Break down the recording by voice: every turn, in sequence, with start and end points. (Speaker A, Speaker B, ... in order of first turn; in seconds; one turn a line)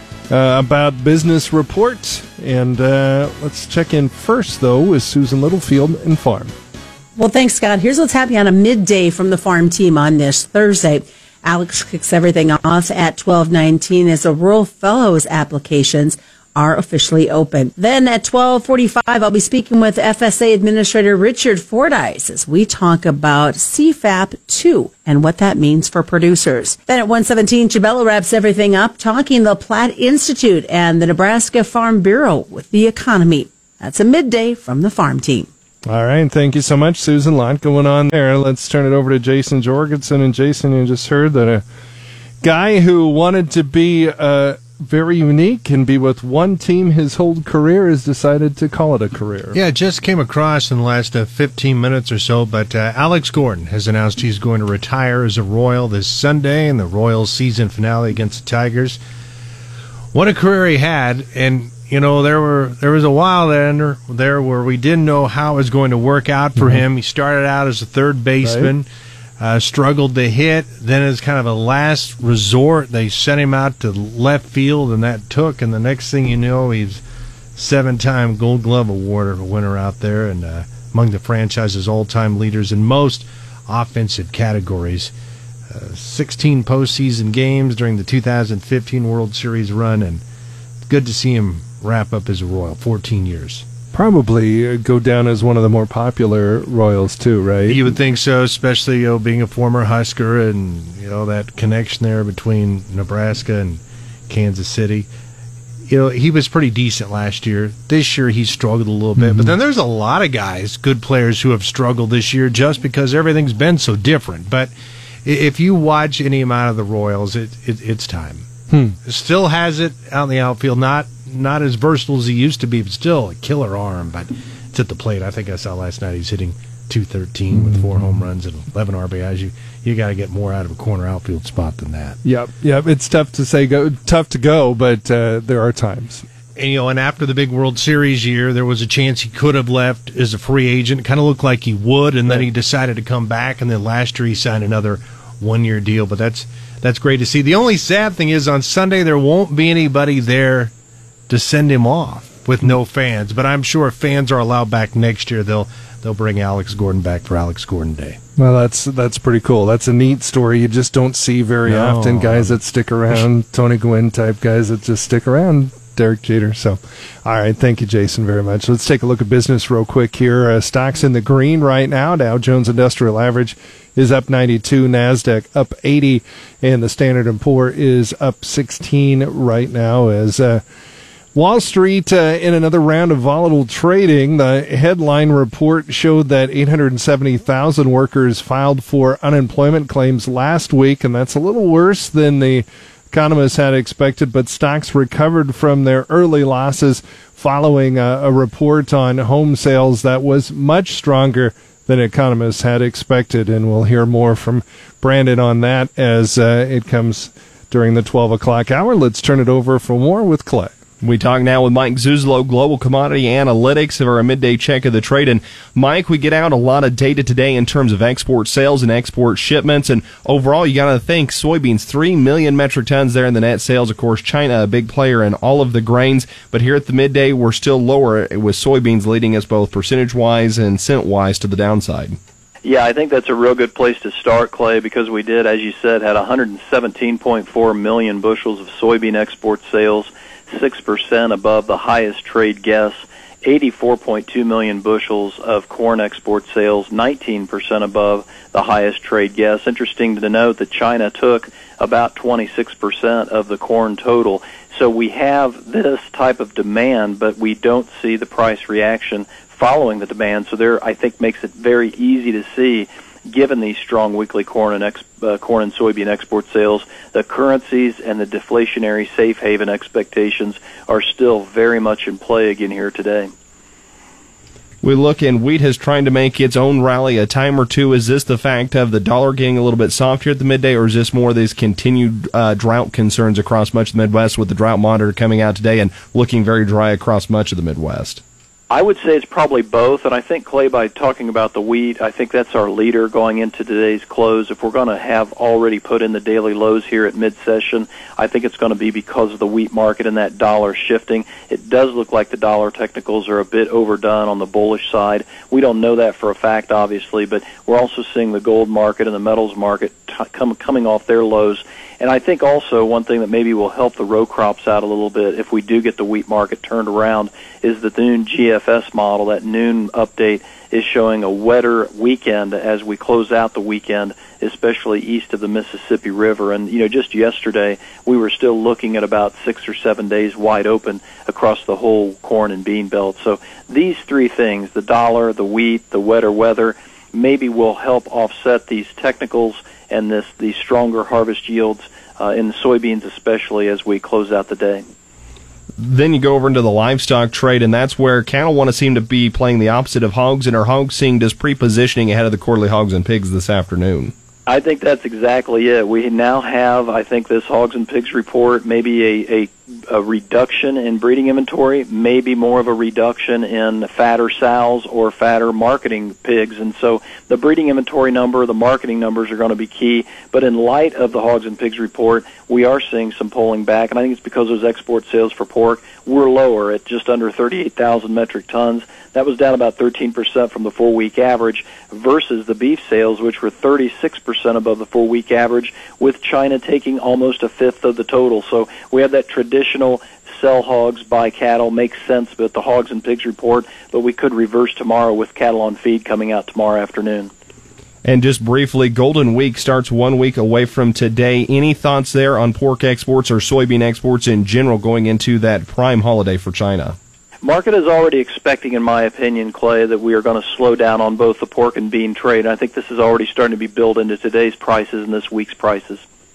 Speaker A: 0.3-6.5
Speaker B: 7.2-35.5
Speaker A: 35.9-41.6
Speaker A: 42.4-49.6
Speaker C: 49.5-59.0
Speaker C: 60.1-68.9
Speaker A: 66.6-66.8
Speaker A: 68.4-68.7
Speaker C: 69.4-77.0
Speaker C: 77.5-85.1
Speaker C: 85.7-90.2
Speaker C: 90.9-93.6
Speaker A: 93.9-97.8
Speaker C: 97.7-105.1
Speaker C: 105.9-114.7
Speaker A: 109.2-109.5
Speaker C: 115.2-118.5
Speaker A: 118.7-119.0
Speaker C: 119.0-132.2
Speaker A: 127.5-128.2
Speaker A: 132.2-136.2
Speaker C: 136.6-150.7
Speaker C: 151.3-158.2
Speaker A: 158.4-180.6
Speaker C: 161.6-162.6
Speaker A: 181.3-210.8
Speaker D: 211.0-232.2
Speaker E: 232.6-273.3
Speaker D: 274.8-288.2
Speaker E: 288.7-344.8
Speaker D: 345.8-354.1
Speaker E: 354.5-397.3
Speaker D: 398.0-406.9
Speaker E: 407.4-416.0